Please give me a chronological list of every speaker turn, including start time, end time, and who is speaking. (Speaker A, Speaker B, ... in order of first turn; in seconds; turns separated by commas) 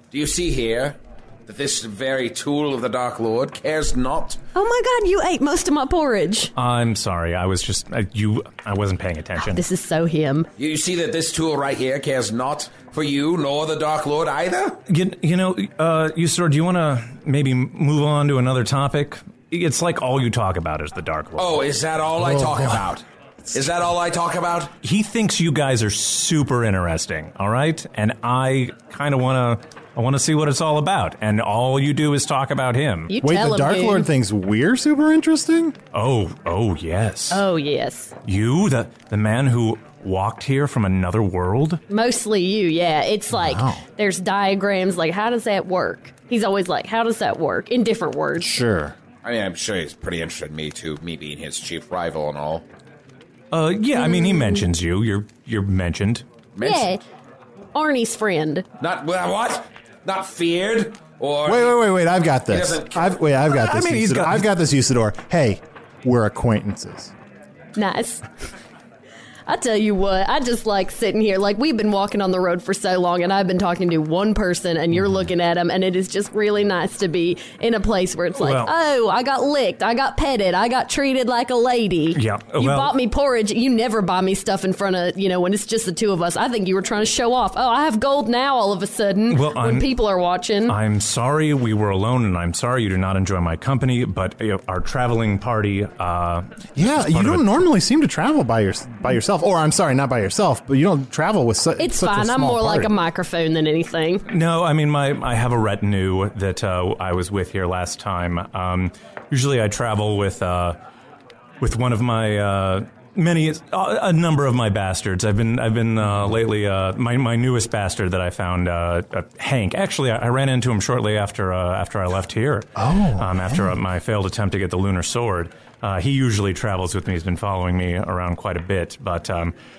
Speaker A: 0.1-4.4, Speaker B: 4.5-6.5, Speaker C: 6.5-9.6, Speaker B: 9.4-10.5, Speaker A: 10.6-14.8, Speaker C: 14.9-21.6, Speaker A: 21.4-24.7, Speaker D: 22.2-22.6, Speaker C: 24.8-33.1, Speaker B: 33.1-34.1, Speaker D: 33.2-35.7, Speaker C: 35.9-37.4, Speaker B: 37.3-38.1, Speaker C: 38.2-41.8, Speaker B: 41.9-48.6, Speaker D: 43.3-43.8, Speaker D: 48.4-48.9, Speaker A: 49.2-52.6, Speaker C: 53.5-56.2, Speaker B: 54.0-54.6, Speaker A: 56.5-56.9, Speaker B: 56.6-57.0, Speaker B: 57.7-58.6, Speaker A: 58.8-61.8, Speaker D: 61.5-67.1, Speaker A: 62.5-63.2, Speaker C: 63.5-64.5, Speaker B: 67.8-68.2, Speaker B: 69.5-90.8, Speaker C: 78.3-78.7, Speaker C: 82.1-82.9, Speaker C: 89.3-89.9, Speaker C: 90.7-97.5, Speaker D: 96.8-102.9, Speaker B: 101.8-104.2, Speaker C: 104.3-110.8, Speaker C: 111.6-129.5, Speaker D: 122.8-123.7